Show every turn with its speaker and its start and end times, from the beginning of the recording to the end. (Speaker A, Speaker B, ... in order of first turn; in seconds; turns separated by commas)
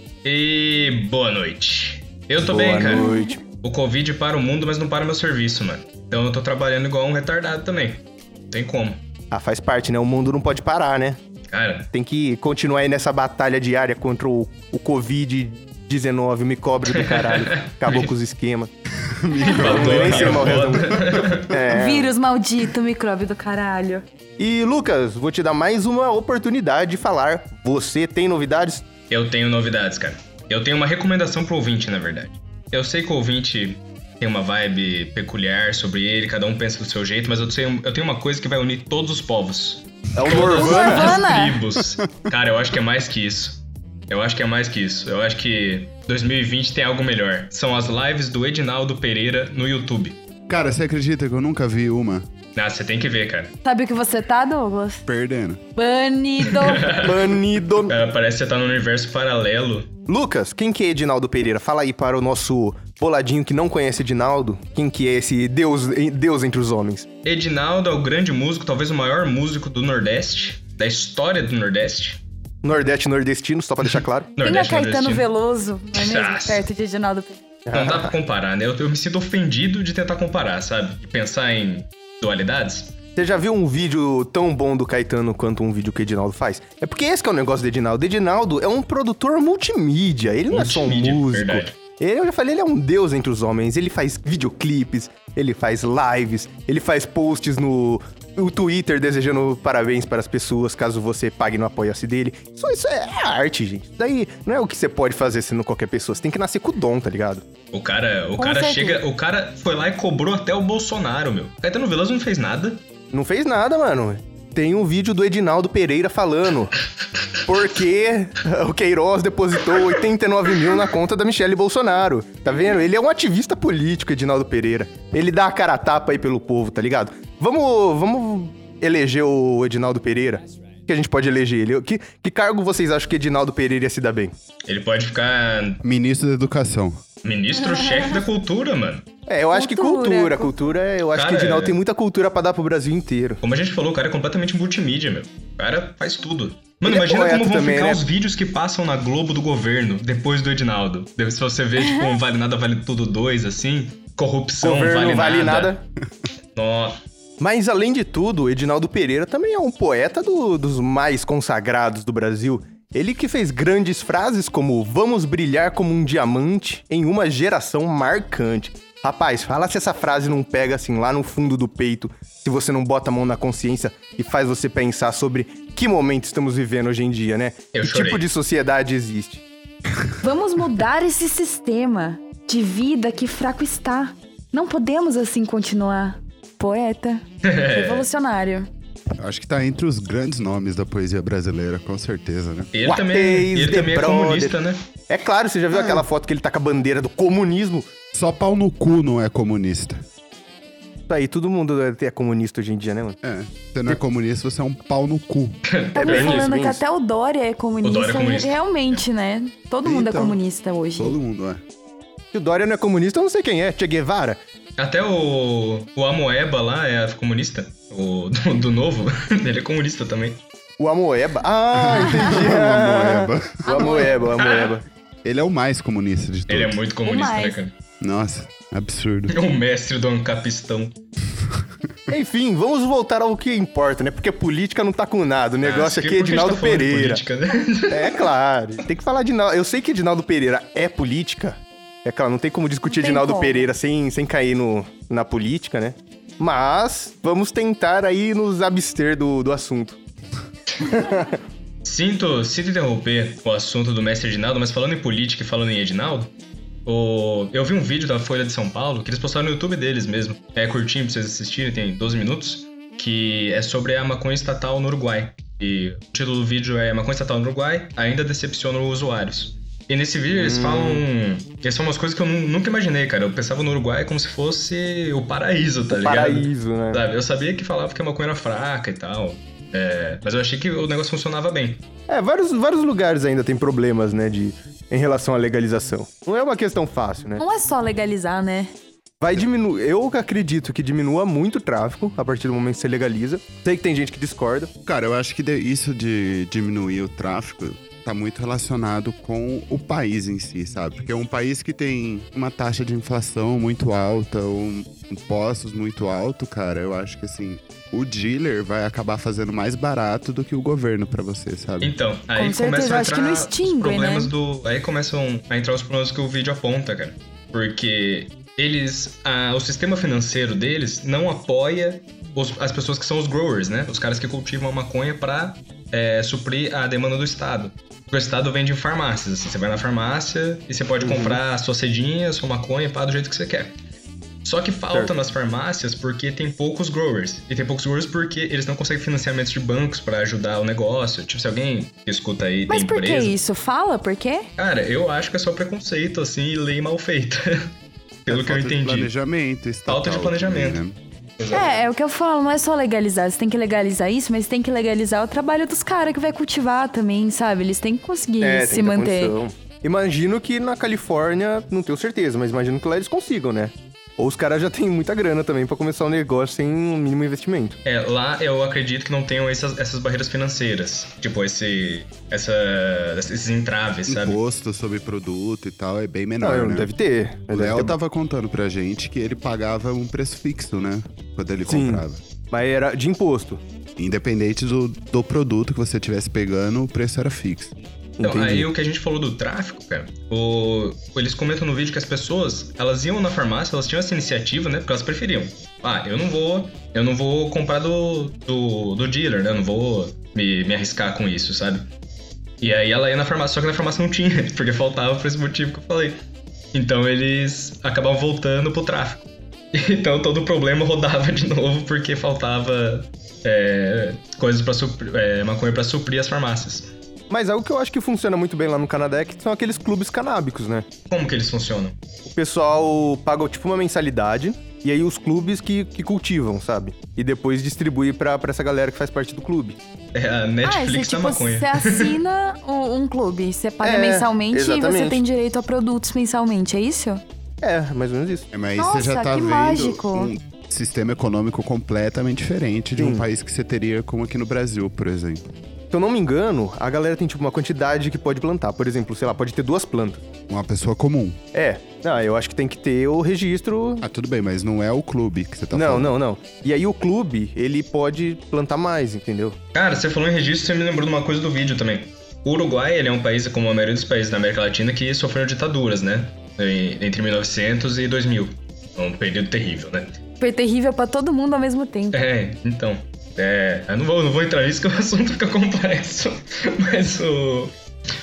Speaker A: 0.2-9.0, Speaker B: 2.4-3.4, Speaker C: 2.9-3.3, Speaker B: 9.3-11.2, Speaker A: 11.5-11.9, Speaker B: 11.9-18.7, Speaker A: 16.9-18.1, Speaker D: 19.0-21.4, Speaker A: 19.4-21.5, Speaker B: 19.6-22.1, Speaker C: 21.6-24.0, Speaker B: 24.4-28.9, Speaker A: 29.1-50.2, Speaker B: 40.1-41.2, Speaker C: 40.3-41.6, Speaker D: 50.5-52.3, Speaker A: 52.5-53.5, Speaker C: 53.6-55.0, Speaker D: 55.1-55.6, Speaker C: 55.8-57.0, Speaker A: 56.4-59.9, Speaker B: 56.9-58.0, Speaker B: 60.1-67.1, Speaker A: 67.2-72.2, Speaker B: 72.6-74.3, Speaker A: 74.4-75.2, Speaker C: 74.4-77.4, Speaker A: 75.9-76.7, Speaker B: 77.7-78.2, Speaker A: 77.7-83.0, Speaker B: 83.2-107.5, Speaker A: 90.5-91.7, Speaker A: 107.7-112.8, Speaker C: 108.4-109.0, Speaker B: 113.1-116.8, Speaker B: 117.4-134.3, Speaker A: 134.7-135.8, Speaker D: 135.8-137.0, Speaker A: 137.2-139.1, Speaker B: 139.3-143.4, Speaker C: 139.5-140.5, Speaker A: 141.2-141.8, Speaker A: 143.4-155.7, Speaker B: 146.8-148.1, Speaker C: 151.8-152.1, Speaker B: 154.6-155.8, Speaker A: 156.6-157.0, Speaker B: 157.4-179.4, Speaker A: 177.7-178.3, Speaker C: 180.2-188.7, Speaker A: 187.4-188.1, Speaker D: 189.2-192.7, Speaker A: 192.7-194.8, Speaker B: 192.8-197.9, Speaker D: 198.1-200.0, Speaker B: 201.1-203.2, Speaker D: 203.2-205.6, Speaker A: 205.7-206.6, Speaker C: 205.9-211.2, Speaker B: 206.0-206.8, Speaker A: 207.8-209.1, Speaker D: 209.8-210.4, Speaker D: 211.0-211.6, Speaker B: 212.3-214.4, Speaker A: 214.8-220.4, Speaker B: 220.8-224.8, Speaker D: 221.7-223.9, Speaker C: 223.7-224.4, Speaker A: 224.4-224.7, Speaker D: 225.2-226.8, Speaker A: 226.5-227.7, Speaker C: 227.1-227.6, Speaker D: 228.0-229.3, Speaker A: 229.3-230.9, Speaker B: 232.1-237.2, Speaker A: 235.6-238.2, Speaker B: 237.9-250.0, Speaker C: 242.9-243.7, Speaker B: 250.9-251.3, Speaker A: 251.8-256.3, Speaker A: 256.9-281.8, Speaker B: 270.3-271.1, Speaker B: 275.9-277.0, Speaker B: 282.1-287.4, Speaker C: 287.4-288.7, Speaker B: 289.2-294.7, Speaker D: 294.9-311.9, Speaker A: 311.8-333.8, Speaker C: 312.4-314.3, Speaker B: 331.0-331.4, Speaker A: 334.4-343.4, Speaker C: 342.7-344.5, Speaker A: 344.6-347.7, Speaker A: 348.3-349.1, Speaker D: 348.3-351.0, Speaker A: 349.9-350.8, Speaker A: 351.4-351.8, Speaker C: 351.5-359.4, Speaker B: 358.4-367.8, Speaker A: 367.9-374.4, Speaker D: 374.1-376.9, Speaker B: 376.4-378.0, Speaker D: 377.5-382.2, Speaker B: 381.7-383.6, Speaker D: 384.0-387.7, Speaker B: 388.2-388.7, Speaker A: 388.2-401.9, Speaker A: 402.6-406.2, Speaker A: 406.7-416.9, Speaker B: 417.3-420.9, Speaker A: 421.1-422.0, Speaker B: 422.3-429.8, Speaker A: 430.1-432.2, Speaker C: 430.6-437.2, Speaker B: 433.8-435.2, Speaker B: 437.6-438.5, Speaker D: 438.5-445.5, Speaker C: 438.8-440.3, Speaker B: 443.0-443.3, Speaker B: 445.9-450.2, Speaker D: 450.5-451.4, Speaker B: 451.5-454.1, Speaker D: 454.0-456.1, Speaker B: 455.7-459.6, Speaker A: 459.7-470.1, Speaker C: 470.4-472.2, Speaker A: 472.1-477.7